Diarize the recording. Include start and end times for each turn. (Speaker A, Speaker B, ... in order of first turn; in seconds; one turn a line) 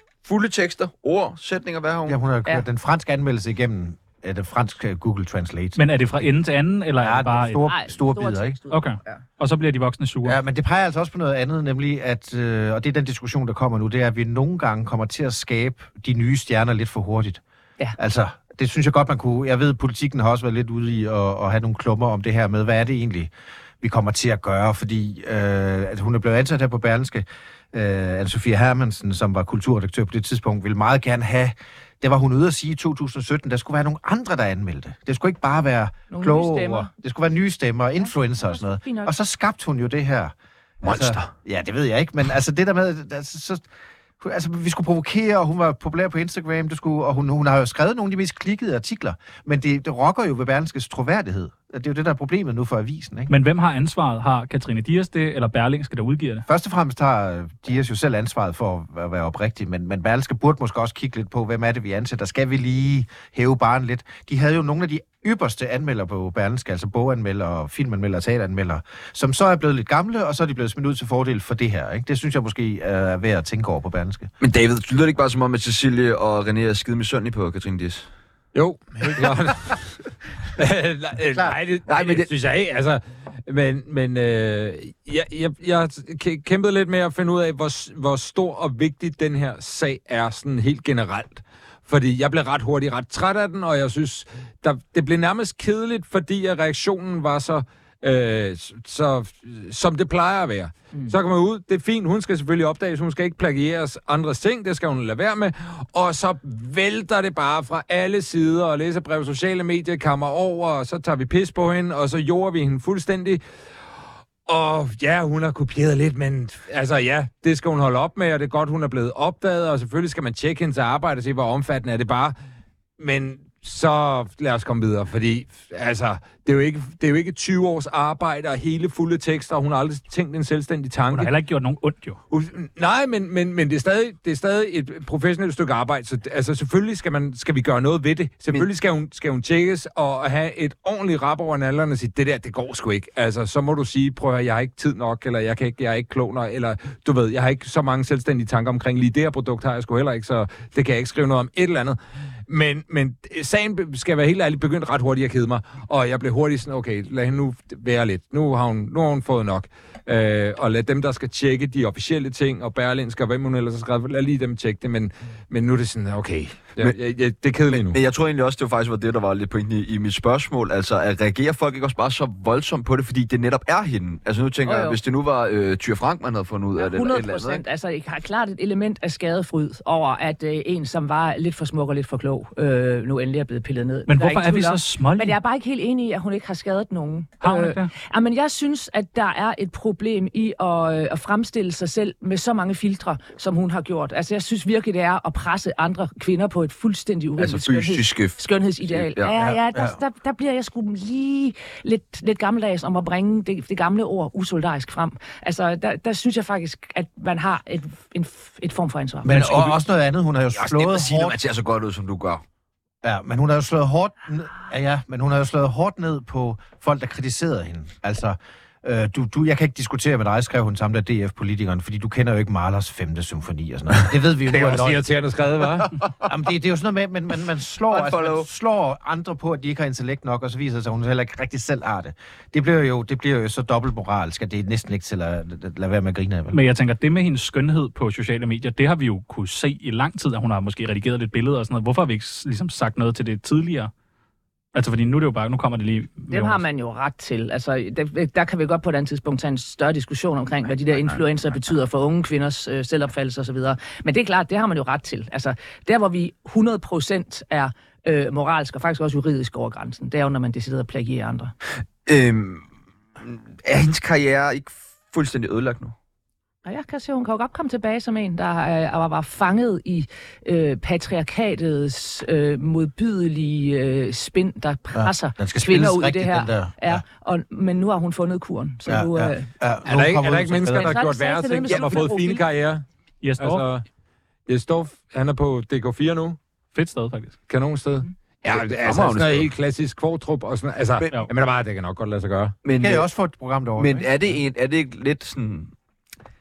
Speaker A: 0.2-2.2
Speaker B: 2.1-5.8
Speaker C: 5.8-7.7
Speaker B: 7.0-8.6
Speaker D: 7.6-9.2
Speaker C: 8.7-10.4
Speaker B: 10.2-17.4
Speaker B: 18.0-43.7
Speaker D: 36.1-36.9
Speaker D: 38.0-39.1
Speaker A: 40.8-41.3
Speaker B: 44.2-53.3
Speaker C: 53.3-56.5
Speaker B: 56.5-74.3
Speaker A: 74.4-78.1
Speaker E: 78.5-80.0
Speaker E: 80.5-113.4
Speaker B: 81.3-81.6
Speaker A: 81.9-82.3
Speaker E: 114.5-122.3
Speaker E: 123.0-131.3
Speaker C: 131.1-132.2
Speaker E: 132.3-168.0
Speaker A: 167.7-177.6
Speaker D: 174.6-175.0
Speaker D: 176.8-209.5
Speaker C: 184.1-185.4
Speaker C: 187.4-187.9
Speaker A: 197.4-199.3
Speaker B: 199.3-200.0
Speaker B: 209.2-211.4
Speaker A: 209.3-209.8
Speaker A: 210.6-212.4
Speaker B: 213.0-225.1
Speaker E: 224.5-226.1
Speaker B: 225.6-236.6
Speaker A: 227.9-228.5
Speaker C: 236.5-243.9
Speaker C: 244.7-246.6
Speaker D: 246.3-261.5
Speaker A: 262.1-262.6
Speaker A: 263.2-265.9
Speaker D: 266.6-279.5
Speaker B: 274.9-277.0
Speaker B: 278.9-281.0
Speaker E: 279.9-282.9
Speaker D: 280.7-282.4
Speaker A: 281.7-282.0
Speaker C: 283.2-283.7
Speaker E: 283.4-283.9
Speaker E: 284.5-286.4
Speaker C: 286.7-287.4
Speaker E: 287.5-292.6
Speaker A: 288.5-289.5
Speaker A: 292.6-293.1
Speaker B: 292.8-294.1
Speaker A: 293.8-295.7